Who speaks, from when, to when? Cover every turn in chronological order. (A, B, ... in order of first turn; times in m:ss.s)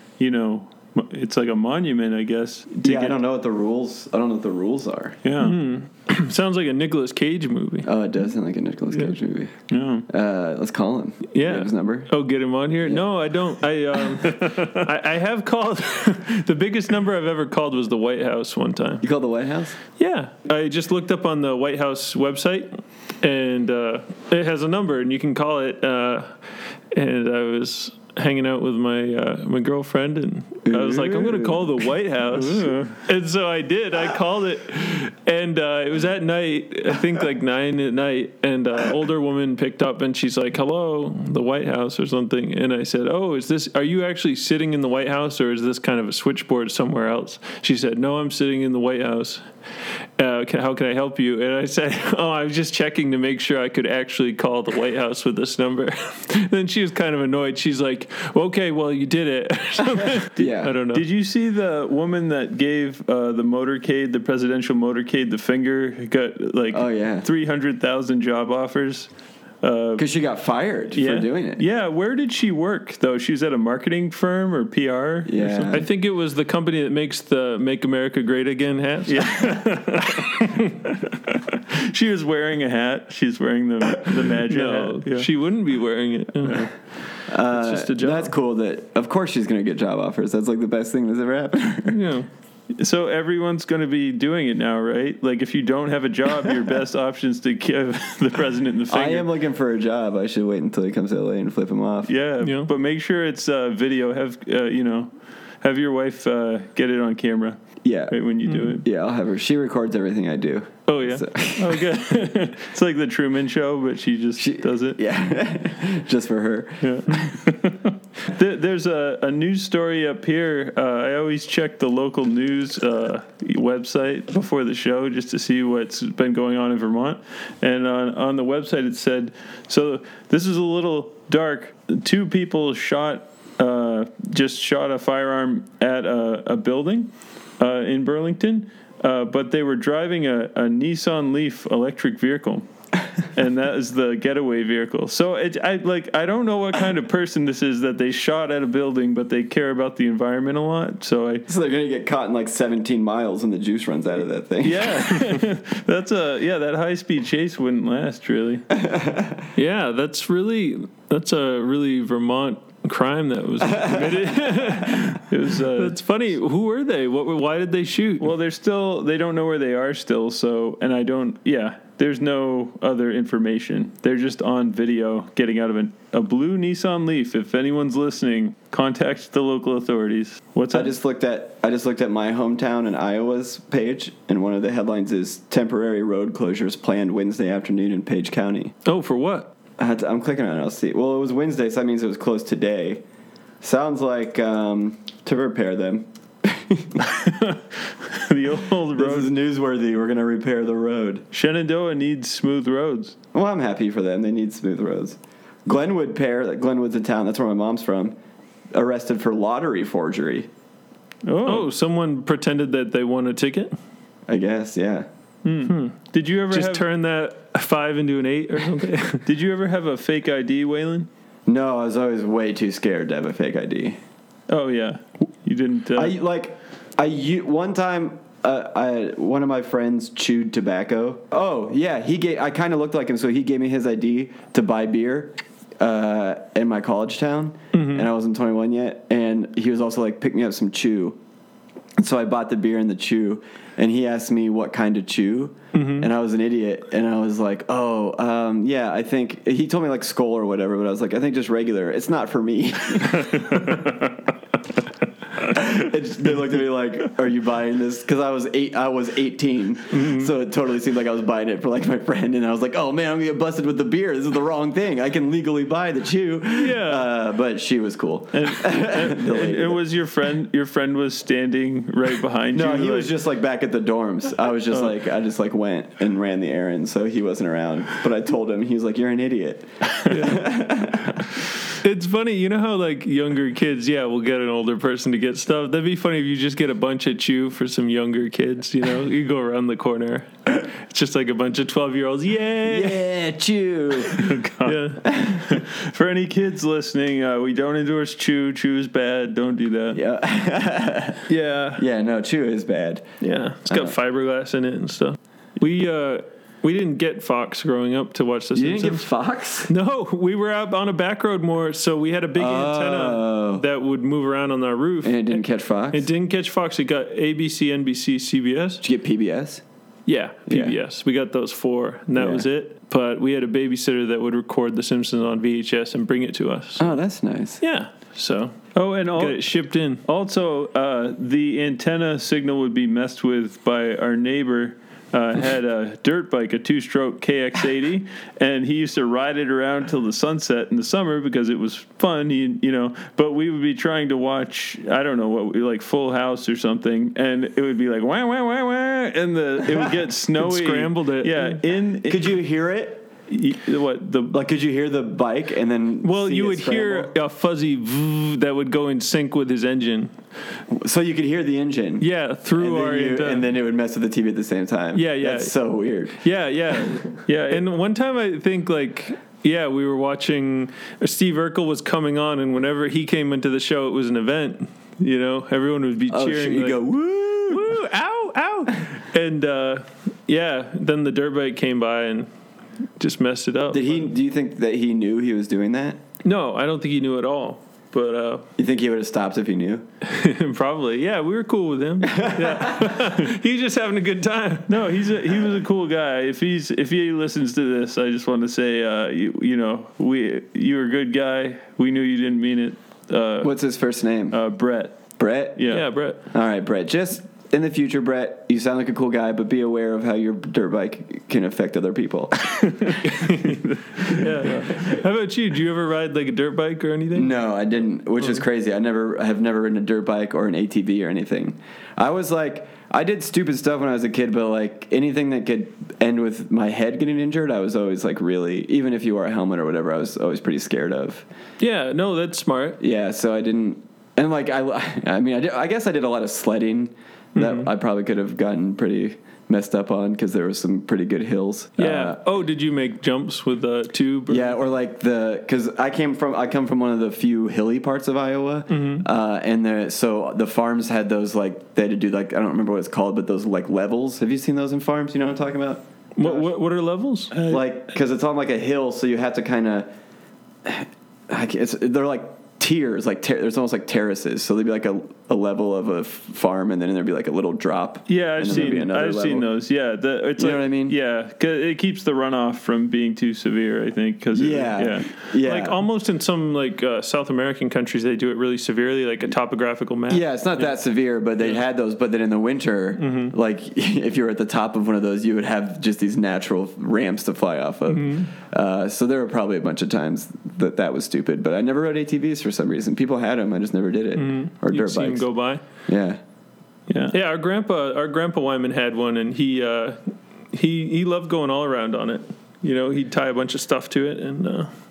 0:00.2-0:03.2 A
0:02.8-0:05.2 B
0:05.2-0:05.6 A
0:05.4-0:07.9 C
0:07.8-0:09.5 B
0:09.7-0:10.0 A
0:10.1-0:12.1 B
0:11.3-0:19.0 C
0:19.0-0:19.8 B
0:20.0-0:26.3 C
0:26.9-0:49.4 C
0:30.6-0:31.8 B
0:32.3-0:33.0 A
0:50.2-1:01.0 C
1:00.2-1:00.8 B
1:00.9-1:09.1 A
1:06.7-1:07.3 B
1:09.6-1:10.1 A
1:10.0-1:11.6 B
1:10.9-1:15.7 A
1:15.2-1:15.8 B
1:15.7-1:20.7 C
1:19.1-1:25.3 A
1:24.5-1:26.7 C
1:27.3-1:32.0 B
1:27.4-1:28.3 C
1:31.9-1:32.3 C
1:32.7-1:39.3 A
1:38.9-1:42.1 B
1:42.1-1:45.1 A
1:42.4-1:42.7 C
1:45.6-1:48.8 A
1:47.8-1:48.2 B
1:48.4-1:48.7 C
1:48.8-1:51.9 B
1:50.9-1:51.2 C
1:51.5-1:55.0 A
1:54.4-1:57.3 B
1:56.8-2:22.6 A
2:23.2-2:31.4 A
2:31.5-2:35.1 B
2:34.6-2:38.6 A
2:38.7-2:39.4 B
2:39.5-2:48.3 C
2:43.6-2:44.5 B
2:45.1-2:46.0 A
2:48.2-3:00.9 A
3:00.7-3:08.7 B
3:08.8-3:09.5 C
3:09.8-3:13.0 B
3:13.6-3:17.0 B
3:17.0-3:19.3 A
3:18.9-3:21.2 B
3:21.3-3:23.2 A
3:23.3-3:28.1 B
3:28.7-3:30.5 B
3:31.2-3:31.7 A
3:31.4-3:33.7 C
3:34.3-3:35.0 B
3:35.4-3:36.9 A
3:35.6-3:36.0 C
3:36.5-3:39.2 C
3:39.2-3:41.1 A
3:41.4-3:44.0 B
3:44.5-3:46.2 A
3:45.9-4:01.2 B
3:57.7-3:58.1 C
4:02.0-4:13.8 B
4:05.7-4:06.1 C
4:15.4-4:29.8 B
4:19.9-4:20.3 C
4:26.5-4:27.0 C
4:28.3-4:33.1 A
4:32.5-4:41.2 B
4:40.1-4:40.5 C
4:41.8-4:53.0 C
4:52.6-4:54.3 B
4:54.1-5:00.0 A
4:54.6-4:55.0 C
4:55.0-4:55.6 B
4:59.9-5:03.0 B
5:01.3-5:01.8 C
5:03.2-5:09.1 C
5:03.7-5:03.9 B
5:08.5-5:09.7 B
5:09.7-5:18.8 C
5:12.3-5:13.6 B
5:15.0-5:16.1 B
5:18.8-5:19.6 B
5:20.1-5:26.9 C
5:20.5-5:20.8 B
5:22.1-5:22.4 B
5:26.8-5:27.6 B
5:27.6-5:30.0 C
5:28.7-5:52.4 A
5:50.4-5:51.6 C
5:52.0-5:53.0 B
5:53.3-5:54.4 A
5:54.3-5:57.1 B
5:56.0-6:00.2 C
6:00.7-6:06.2 B
6:02.0-6:03.5 C
6:04.9-6:05.5 C
6:06.2-6:16.8 C
6:07.3-6:07.7 A
6:16.1-6:17.7 B
6:17.5-6:22.3 C
6:23.0-6:24.1 C
6:23.7-6:26.0 B
6:26.2-6:28.4 C
6:28.6-6:29.8 B
6:30.0-6:34.7 C
6:32.0-6:33.0 B
6:34.7-6:43.5 A
6:43.4-6:44.4 B
6:44.3-6:45.9 A
6:45.2-6:45.6 B
6:45.7-6:46.2 C
6:46.3-6:52.9 B
6:52.6-6:52.9 A
6:53.0-6:57.4 C
6:57.1-7:11.2 B
7:11.6-7:12.8 C
7:12.8-7:22.4 B
7:17.4-7:17.7 C
7:21.8-7:24.6 C
7:24.3-7:36.5 B
7:28.7-7:29.0 C
7:36.2-7:37.3 C
7:37.3-7:37.6 A
7:37.4-7:39.9 B
7:40.6-7:49.5 B
7:48.1-7:55.1 A
7:48.5-7:48.8 C
7:50.4-7:51.0 B
7:54.3-7:55.8 B
7:55.4-8:00.2 C
8:00.1-8:15.3 B
8:03.0-8:03.3 C
8:07.9-8:08.3 C
8:14.2-8:15.6 C
8:15.9-8:16.2 B
8:16.9-8:17.1 A
8:17.1-8:24.7 C